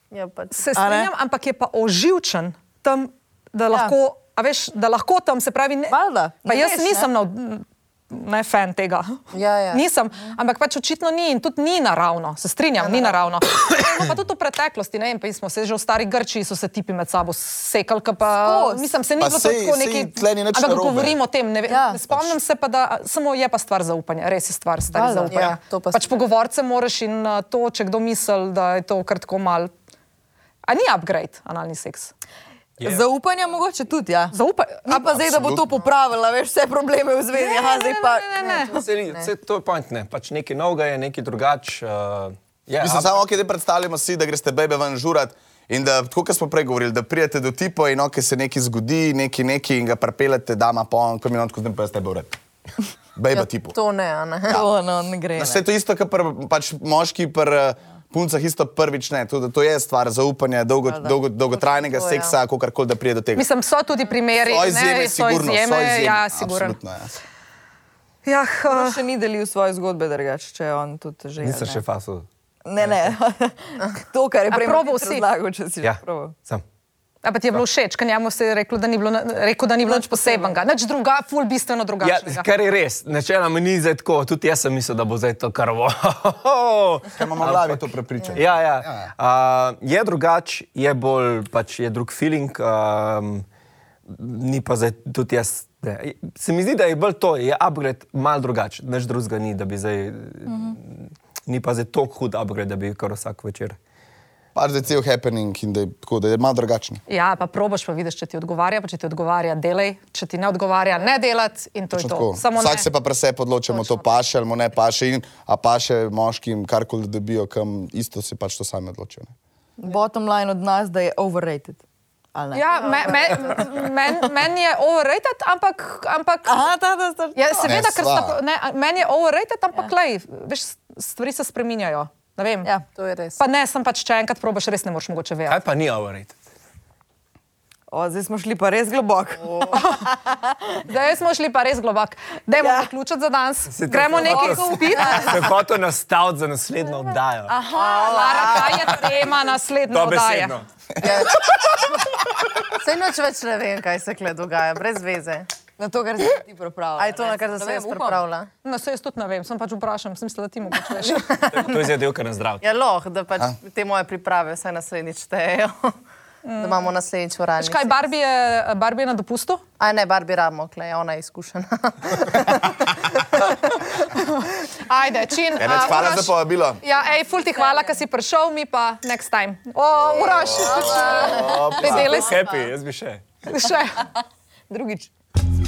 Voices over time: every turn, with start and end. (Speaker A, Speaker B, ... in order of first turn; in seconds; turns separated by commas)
Speaker A: 0.1-0.6, Speaker B: 0.5-9.2, Speaker C: 0.7-1.1, Speaker C: 5.9-7.1, Speaker A: 9.3-9.8, Speaker B: 9.7-29.7, Speaker A: 12.8-13.1, Speaker C: 18.4-18.9, Speaker D: 19.2-21.2, Speaker C: 21.7-22.0, Speaker D: 22.1-22.4, Speaker C: 24.9-25.4, Speaker A: 25.3-26.1, Speaker B: 30.7-32.1, Speaker C: 32.8-38.4, Speaker B: 34.3-35.1, Speaker D: 35.1-35.6, Speaker B: 37.3-38.8, Speaker E: 38.7-43.2, Speaker D: 42.8-52.4, Speaker D: 53.1-53.8, Speaker A: 53.7-54.6, Speaker C: 54.5-55.6, Speaker D: 55.4-63.5, Speaker C: 60.8-61.2, Speaker A: 61.7-62.4, Speaker B: 63.3-66.8, Speaker D: 64.4-67.1, Speaker B: 68.2-69.0, Speaker C: 68.6-71.8, Speaker E: 71.4-72.3, Speaker C: 72.7-76.3, Speaker E: 72.8-73.1, Speaker B: 74.5-75.2, Speaker E: 75.8-76.6, Speaker B: 77.2-82.5, Speaker C: 79.8-80.6, Speaker E: 82.0-87.8, Speaker D: 87.1-89.1, Speaker E: 88.3-93.5, Speaker E: 94.1-103.8, Speaker C: 100.5-100.8, Speaker D: 104.5-107.0, Speaker B: 107.1-112.9, Speaker D: 111.9-119.3, Speaker A: 113.7-114.0, Speaker C: 119.8-121.8, Speaker C: 122.3-122.7, Speaker B: 122.5-126.6, Speaker A: 122.7-123.8, Speaker C: 126.5-127.7, Speaker B: 127.3-132.7, Speaker D: 127.6-128.4, Speaker A: 132.9-133.4, Speaker B: 133.4-135.6, Speaker E: 135.5-136.4, Speaker C: 137.9-140.6, Speaker A: 139.5-139.8, Speaker B: 139.7-140.1, Speaker B: 140.8-145.4, Speaker C: 142.6-142.9, Speaker E: 143.7-147.6, Speaker C: 144.3-145.5, Speaker C: 147.5-149.1, Speaker A: 147.7-148.7, Speaker B: 147.7-150.6, Speaker E: 149.9-150.6, Speaker A: 151.0-151.5, Speaker A: 152.8-155.5, Speaker C: 155.8-158.2, Speaker A: 157.0-158.5, Speaker B: 158.6-161.3, Speaker A: 161.1-161.8, Speaker E: 161.5-162.6, Speaker A: 162.6-165.9, Speaker B: 166.4-166.9, Speaker A: 166.6-168.0, Speaker B: 167.6-169.6, Speaker A: 169.8-173.5, Speaker B: 174.8-182.4, Speaker D: 175.6-176.8, Speaker D: 180.1-182.2, Speaker E: 181.9-183.2, Speaker A: 182.3-182.7, Speaker B: 183.5-184.1, Speaker C: 184.7-185.1